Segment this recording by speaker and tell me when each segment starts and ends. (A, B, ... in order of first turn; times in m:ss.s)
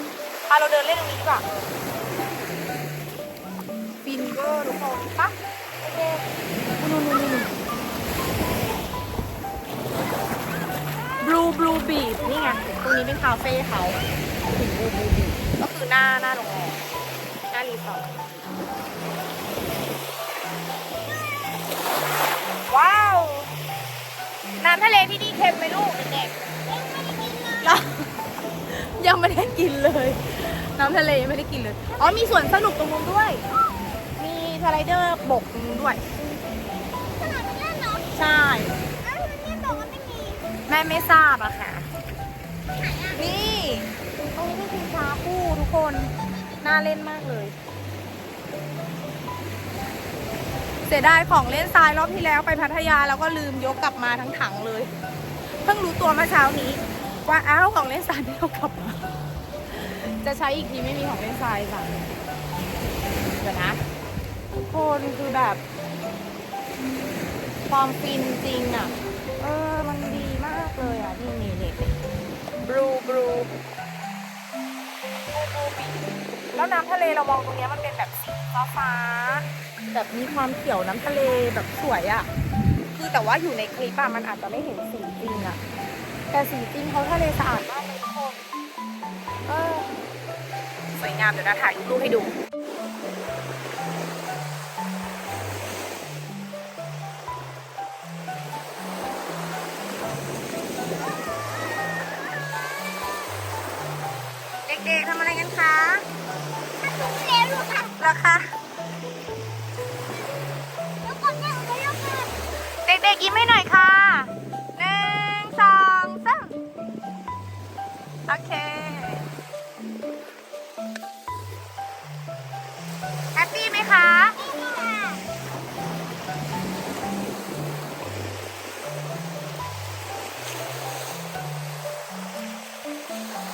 0:00.5-0:01.4 A
0:04.0-0:06.2 A
0:06.8-0:07.5 A
0:11.2-0:16.8 A
0:17.5-0:18.2 A
0:22.7-0:23.5 A
0:24.6-0:26.3 A
0:26.6-0:27.8 B
0:27.6-0:28.1 A
0:28.7-0:33.4 A
0:32.0-0:32.3 B
0:33.5-0:34.0 B
0:34.2-0:36.0 A
0:37.0-0:38.1 B
0:38.1-0:38.7 A
0:39.0-0:40.5 B
0:40.7-0:41.9 A
0:42.8-0:43.2 B
0:43.2-0:46.1 A
0:46.6-0:47.6 A
0:50.9-0:54.9 A
0:55.6-0:59.1 A
0:59.7-1:02.1 A
1:03.4-1:03.8 A
1:04.5-1:05.6 A
1:07.7-1:12.0 A
1:12.7-1:13.5 A
1:15.3-1:16.0 A
1:16.5-1:22.3 A
1:22.9-1:25.6 A
1:26.3-1:28.4 A
1:29.5-1:29.9 A
1:30.9-1:32.3 A
1:41.9-1:42.8 B
1:44.7-1:46.0 A
1:46.8-1:48.0 B
1:48.0-1:48.5 A
1:51.0-1:52.4 B
1:52.8-1:56.5 A
1:58.3-1:59.2 A
2:03.4-2:04.4 A
2:04.4-2:05.2 B